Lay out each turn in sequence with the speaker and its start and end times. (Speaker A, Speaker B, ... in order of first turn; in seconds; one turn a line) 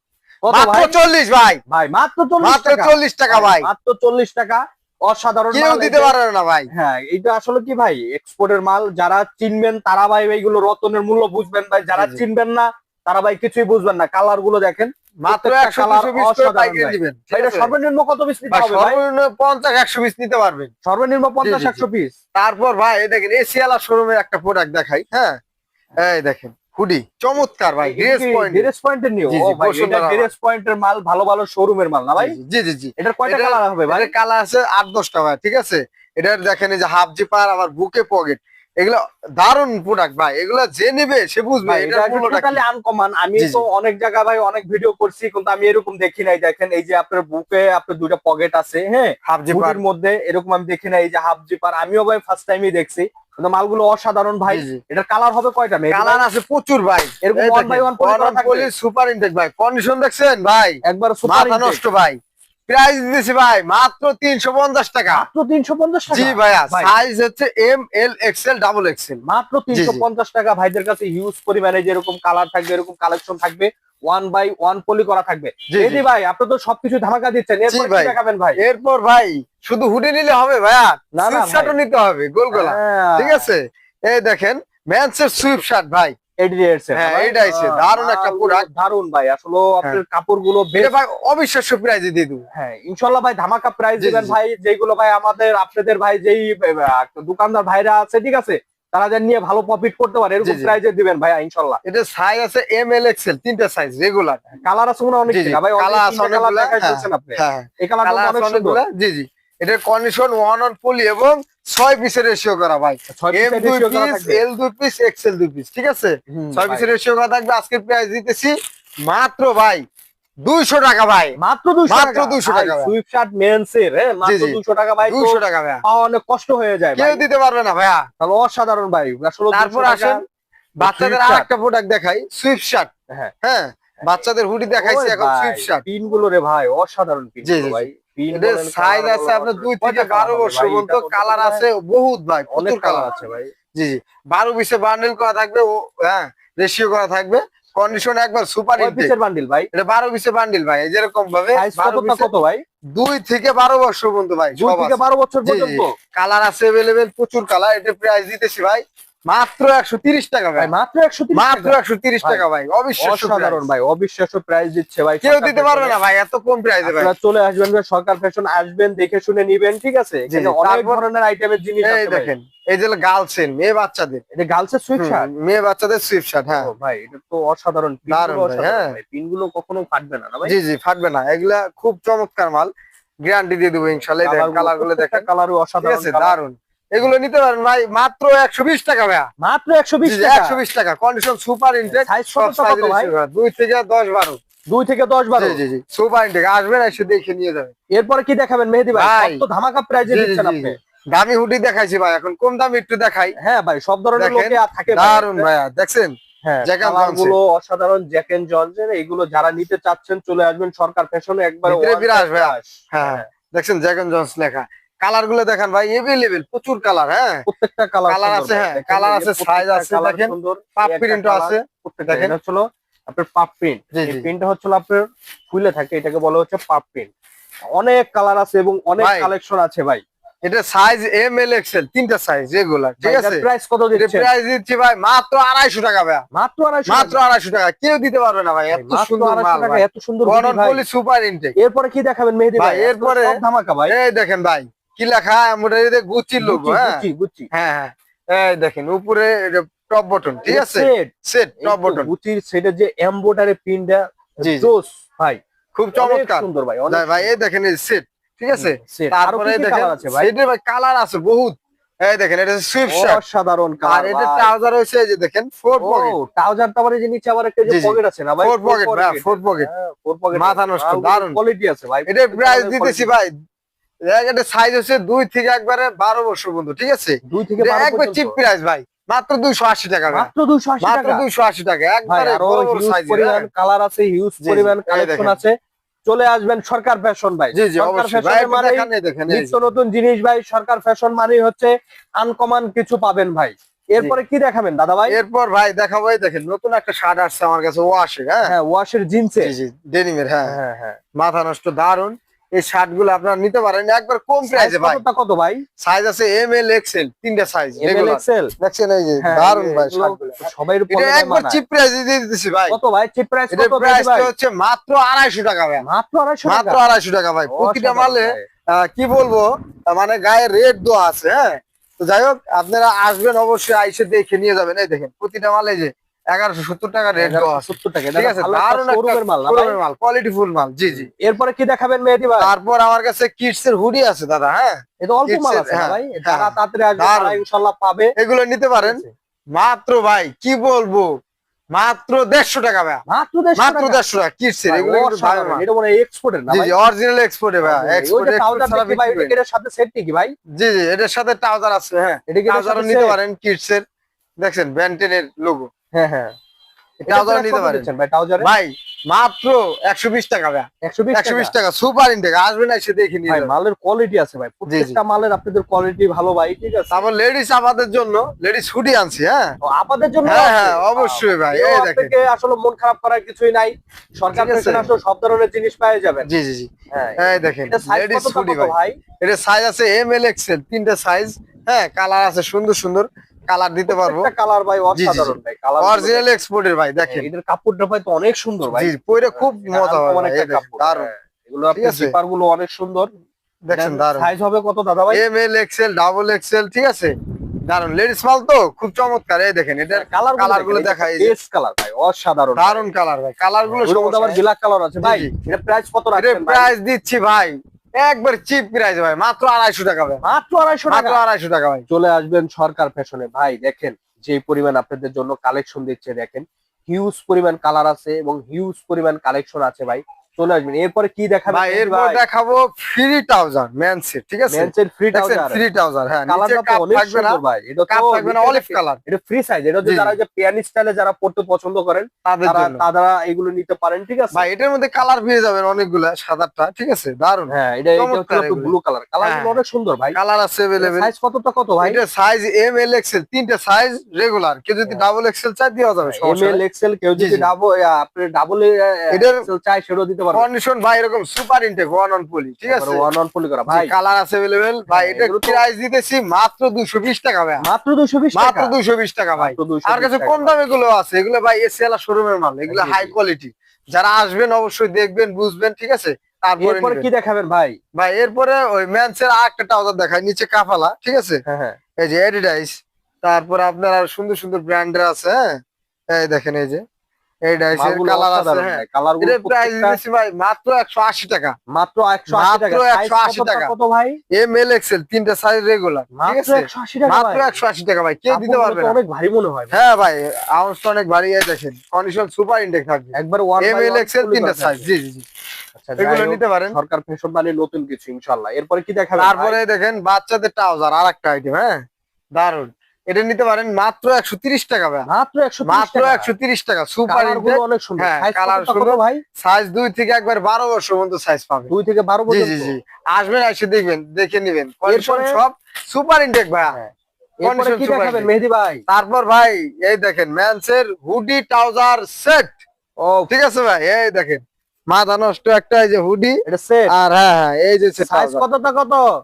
Speaker A: 0.5-1.0
Speaker B: 0.5-1.6
Speaker A: 1.7-6.1
Speaker B: 2.4-3.7
Speaker B: 5.5-6.7
Speaker A: 6.7-19.0
Speaker B: 11.9-12.2
Speaker B: 15.2-17.7
Speaker B: 18.5-20.7
Speaker A: 20.9-22.1
Speaker B: 21.4-21.8
Speaker B: 22.3-25.4
Speaker B: 26.0-28.7
Speaker A: 27.8-32.4
Speaker B: 29.3-30.3
Speaker B: 32.2-42.6
Speaker A: 33.0-34.1
Speaker A: 41.6-56.2
Speaker B: 43.4-43.6
Speaker B: 49.2-49.8
Speaker B: 54.5-54.8
Speaker B: 55.9-65.2
Speaker A: 57.2-58.7
Speaker A: 60.8-61.8
Speaker A: 65.1-66.9
Speaker B: 66.1-69.2
Speaker A: 69.2-78.6
Speaker B: 69.7-70.0
Speaker B: 75.7-76.0
Speaker B: 77.7-86.1
Speaker A: 81.1-81.7
Speaker A: 82.5-83.5
Speaker A: 86.4-90.9
Speaker B: 86.9-88.7
Speaker B: 90.7-92.4
Speaker A: 92.5-101.8
Speaker B: 94.0-94.3
Speaker B: 100.4-100.8
Speaker B: 101.8-104.4
Speaker A: 104.6-108.8
Speaker B: 105.3-118.5
Speaker A: 113.1-114.4
Speaker A: 116.3-116.9
Speaker B: 119.0-119.8
Speaker B: 120.4-121.3
Speaker A: 121.4-127.2
Speaker B: 121.9-122.9
Speaker B: 124.2-125.8
Speaker B: 127.0-128.1
Speaker A: 128.2-130.2
Speaker B: 129.5-130.2
Speaker B: 130.8-132.9
Speaker A: 130.8-131.5
Speaker B: 133.4-135.8
Speaker A: 134.8-141.6
Speaker B: 137.4-143.1
Speaker A: 142.5-143.5
Speaker B: 143.7-149.1
Speaker A: 148.8-149.7
Speaker B: 149.7-152.3
Speaker A: 151.5-152.6
Speaker B: 152.9-160.7
Speaker A: 154.6-155.9
Speaker A: 160.6-162.4
Speaker B: 161.3-163.7
Speaker A: 163.0-165.9
Speaker B: 165.2-167.1
Speaker A: 166.8-172.3
Speaker B: 170.3-171.0
Speaker B: 171.8-174.2
Speaker A: 174.3-175.3
Speaker B: 175.0-176.7
Speaker A: 176.5-180.5
Speaker B: 178.1-179.0
Speaker B: 180.4-182.7
Speaker B: 183.2-185.2
Speaker A: 184.2-186.3
Speaker B: 185.8-189.3
Speaker A: 189.4-190.6
Speaker B: 190.0-194.4
Speaker A: 191.9-193.1
Speaker A: 194.7-195.6
Speaker B: 195.4-197.7
Speaker A: 197.9-200.8
Speaker B: 198.9-199.4
Speaker B: 200.1-203.3
Speaker A: 203.4-205.5
Speaker B: 204.2-207.3
Speaker A: 206.4-213.3
Speaker B: 211.6-217.4
Speaker A: 217.4-227.1
Speaker B: 218.1-222.3
Speaker B: 223.9-224.3
Speaker A: 227.7-230.0
Speaker B: 229.0-229.3
Speaker B: 230.4-236.2
Speaker A: 233.0-234.3
Speaker A: 236.3-237.2
Speaker B: 236.9-241.5
Speaker A: 238.7-240.8
Speaker A: 241.6-243.9
Speaker B: 242.6-252.1
Speaker A: 246.4-247.5
Speaker A: 250.4-251.1
Speaker A: 251.6-255.4
Speaker B: 254.4-254.7
Speaker B: 255.7-263.2
Speaker A: 255.9-257.3
Speaker A: 258.5-260.3
Speaker A: 262.9-264.5
Speaker B: 263.9-266.1
Speaker A: 265.8-273.1
Speaker B: 267.6-269.7
Speaker B: 270.3-271.4
Speaker B: 272.1-273.3
Speaker B: 274.1-280.3
Speaker A: 277.2-278.4
Speaker A: 280.1-281.2
Speaker B: 280.8-283.5
Speaker A: 282.0-285.5
Speaker B: 284.4-285.4
Speaker A: 286.1-295.2
Speaker B: 287.5-289.5
Speaker B: 295.1-298.5
Speaker A: 298.4-299.5
Speaker B: 299.4-300.5
Speaker A: 300.4-301.0
Speaker B: 301.1-305.0
Speaker A: 304.4-305.6
Speaker B: 305.8-312.8
Speaker A: 307.8-308.5
Speaker A: 309.2-311.6
Speaker A: 312.7-314.3
Speaker B: 313.5-315.8
Speaker A: 315.8-316.8
Speaker B: 316.4-331.1
Speaker A: 317.5-318.4
Speaker A: 327.2-329.8
Speaker A: 330.9-332.5
Speaker B: 332.4-337.4
Speaker A: 335.0-338.1
Speaker B: 338.2-339.0
Speaker A: 338.8-339.1
Speaker B: 339.6-341.1
Speaker B: 341.7-343.0
Speaker A: 343.1-344.0
Speaker B: 343.6-345.6
Speaker A: 344.7-346.8
Speaker B: 346.5-349.3
Speaker A: 347.6-350.3
Speaker B: 350.5-353.8
Speaker A: 352.3-353.2
Speaker B: 354.4-355.7
Speaker A: 355.9-356.3
Speaker B: 357.0-357.9
Speaker A: 357.1-358.5
Speaker B: 358.4-363.5
Speaker A: 360.8-361.5
Speaker A: 363.3-367.1
Speaker B: 364.7-365.0
Speaker B: 366.9-369.6
Speaker A: 369.6-376.3
Speaker B: 370.2-372.1
Speaker B: 374.3-374.9
Speaker B: 376.2-384.3
Speaker A: 376.9-379.0
Speaker A: 383.9-386.2
Speaker B: 384.9-387.3
Speaker A: 387.1-393.1
Speaker B: 388.7-391.1
Speaker B: 391.7-392.1
Speaker B: 393.6-394.3
Speaker A: 393.7-395.2
Speaker B: 395.1-397.1
Speaker B: 397.6-401.3
Speaker A: 399.9-402.9
Speaker B: 402.6-404.4
Speaker A: 403.8-406.7
Speaker B: 405.0-405.3
Speaker B: 406.1-410.2
Speaker A: 410.2-411.2
Speaker B: 410.9-411.9
Speaker A: 411.9-422.2
Speaker B: 421.5-429.0
Speaker A: 424.5-425.6
Speaker A: 426.3-434.4
Speaker B: 429.8-430.1
Speaker B: 432.2-432.8
Speaker B: 434.3-439.6
Speaker A: 437.5-440.2
Speaker B: 440.1-441.1
Speaker A: 440.8-442.0
Speaker B: 441.8-446.6
Speaker A: 446.0-450.5
Speaker B: 447.2-447.5
Speaker B: 449.1-449.4
Speaker B: 450.3-453.1
Speaker A: 452.7-453.9
Speaker B: 453.7-457.6
Speaker A: 454.9-455.6
Speaker A: 457.6-458.7
Speaker B: 458.3-467.1
Speaker A: 459.4-460.6
Speaker A: 462.7-463.1
Speaker A: 466.6-467.8
Speaker B: 467.9-471.4
Speaker A: 471.5-471.8
Speaker B: 472.0-475.6
Speaker B: 476.1-476.8
Speaker B: 477.5-481.6
Speaker A: 477.8-480.0
Speaker A: 481.7-484.2
Speaker B: 482.3-483.7
Speaker B: 484.3-489.0
Speaker A: 486.1-487.6
Speaker A: 488.3-489.8
Speaker B: 489.7-495.2
Speaker A: 493.1-494.9
Speaker A: 495.8-499.6
Speaker B: 496.0-496.7
Speaker B: 499.2-501.8
Speaker B: 502.4-505.1
Speaker A: 505.1-506.3
Speaker B: 505.6-511.7
Speaker A: 507.1-509.2
Speaker A: 511.7-512.7
Speaker B: 512.3-516.8
Speaker A: 514.8-515.4
Speaker A: 517.4-518.8
Speaker B: 517.4-518.3
Speaker B: 518.9-522.6
Speaker A: 523.0-523.3
Speaker B: 523.3-526.4
Speaker A: 526.5-526.9
Speaker B: 526.9-528.4
Speaker A: 528.0-529.0